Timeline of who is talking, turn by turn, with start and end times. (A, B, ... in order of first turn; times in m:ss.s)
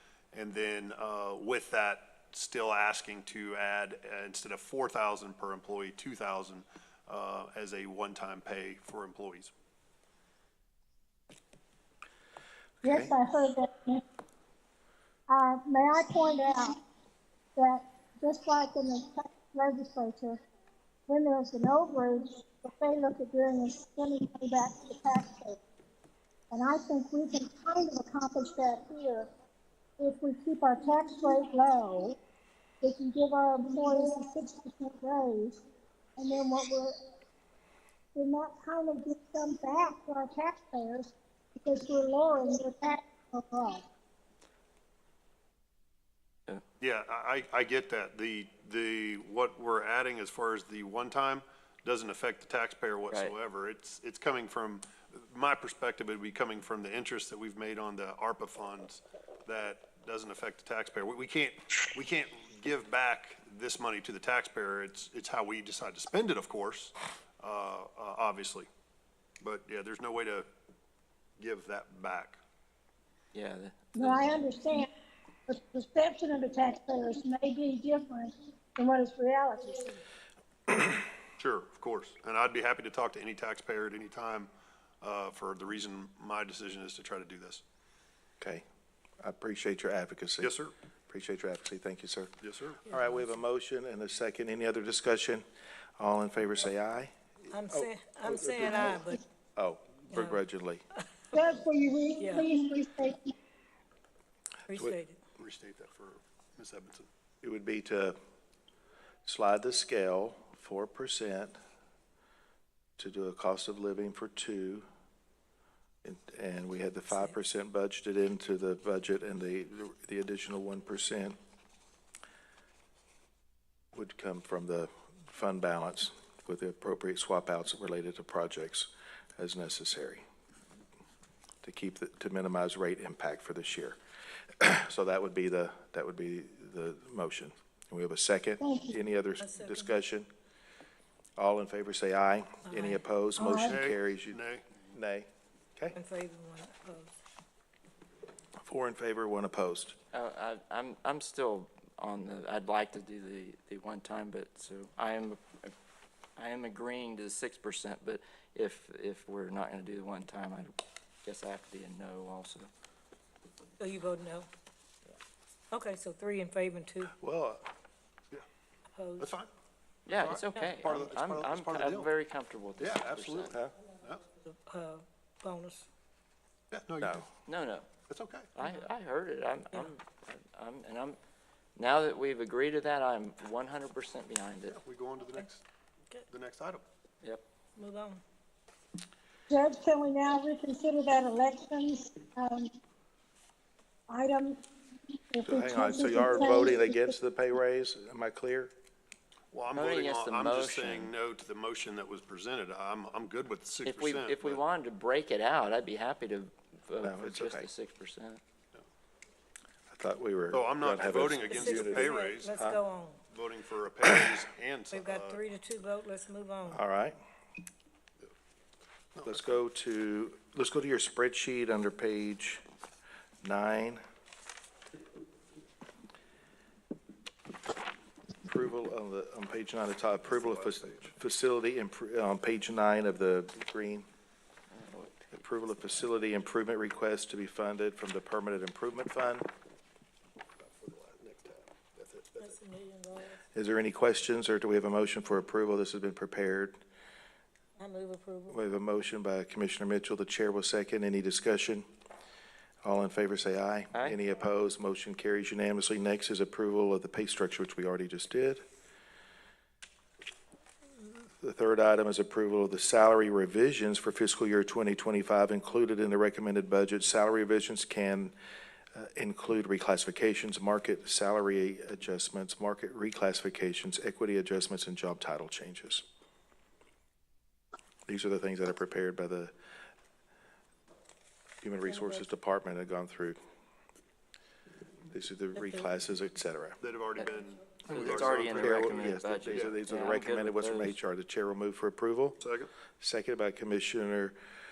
0:00.3-0:09.5 A
0:12.8-0:13.1 B
0:12.8-0:14.0 C
0:15.3-0:16.8 C
0:17.6-0:20.4 C
0:21.1-0:25.6 C
0:26.5-0:29.3 C
0:30.0-0:32.2 C
0:32.8-0:35.6 C
0:36.2-0:37.0 C
0:38.1-0:43.8 C
0:46.8-1:08.7 A
1:09.4-1:10.5 A
1:11.4-1:12.4 A
1:13.3-1:14.2 D
1:13.9-1:14.9 C
1:15.5-1:19.9 C
1:21.4-1:27.6 A
1:28.4-1:28.6 B
1:29.2-1:32.3 B
1:30.4-1:30.7 A
1:32.4-1:32.8 A
1:32.8-1:35.4 B
1:33.0-1:33.3 E
1:36.0-1:37.1 B
1:37.5-1:39.2 E
1:37.7-1:40.8 B
1:40.1-1:40.4 E
1:41.3-1:43.3 C
1:42.2-1:42.5 E
1:44.7-1:45.2 E
1:45.4-1:47.1 A
1:47.4-1:48.2 B
1:49.2-1:51.6 B
1:53.0-1:54.8 B
1:56.0-2:01.4 B
2:03.9-2:10.2 B
2:11.6-2:14.0 B
2:14.6-2:20.3 B
2:18.6-2:19.0 C
2:19.4-2:20.0 E
2:21.4-2:26.0 B
2:22.6-2:23.0 E
2:23.4-2:23.8 C
2:23.6-2:24.6 A
2:25.9-2:27.1 E
2:28.6-2:30.0 B
2:30.1-2:35.7 D
2:36.4-2:42.7 D
2:43.8-2:44.5 E
2:45.7-2:47.1 E
2:47.2-2:47.7 B
2:48.9-2:49.3 E
2:49.2-2:49.5 A
2:50.0-2:53.6 D
2:50.1-2:52.1 A
2:52.8-2:54.2 A
2:54.4-2:55.9 E
2:56.7-2:57.2 A
2:57.0-2:57.2 B
2:57.5-2:57.9 D
2:58.1-2:58.5 A
2:58.5-3:01.2 D
3:01.8-3:04.8 D
3:04.7-3:05.6 A
3:06.3-3:06.8 A
3:07.8-3:08.2 E
3:09.5-3:12.7 C
3:14.1-3:17.1 C
3:15.4-3:18.7 B
3:19.5-3:24.6 A
3:19.7-3:21.1 D
3:23.8-3:28.4 D
3:27.0-3:27.7 B
3:29.9-3:32.8 B
3:30.5-3:32.5 A
3:31.5-3:33.2 E
3:33.3-3:35.4 A
3:34.9-3:36.8 E
3:36.7-3:37.2 B
3:39.2-3:39.4 A
3:39.2-3:42.6 B
3:43.4-3:44.0 B
3:48.4-3:54.0 B
3:50.2-3:51.1 A
3:54.7-3:55.4 D
3:55.3-3:59.5 B
4:00.6-4:02.6 A
4:02.4-4:03.4 E
4:03.5-4:06.8 B
4:07.8-4:08.6 E
4:08.5-4:11.8 B
4:12.8-4:18.6 B
4:21.4-4:28.3 B
4:28.9-4:36.0 B
4:38.1-4:39.5 B
4:41.6-4:43.4 B
4:41.9-4:42.2 E
4:45.1-4:46.8 B
4:45.5-4:45.9 E
4:46.8-4:49.8 A
4:47.9-4:51.0 D
4:48.0-4:52.4 B
4:52.4-4:52.7 A
4:53.0-4:54.3 B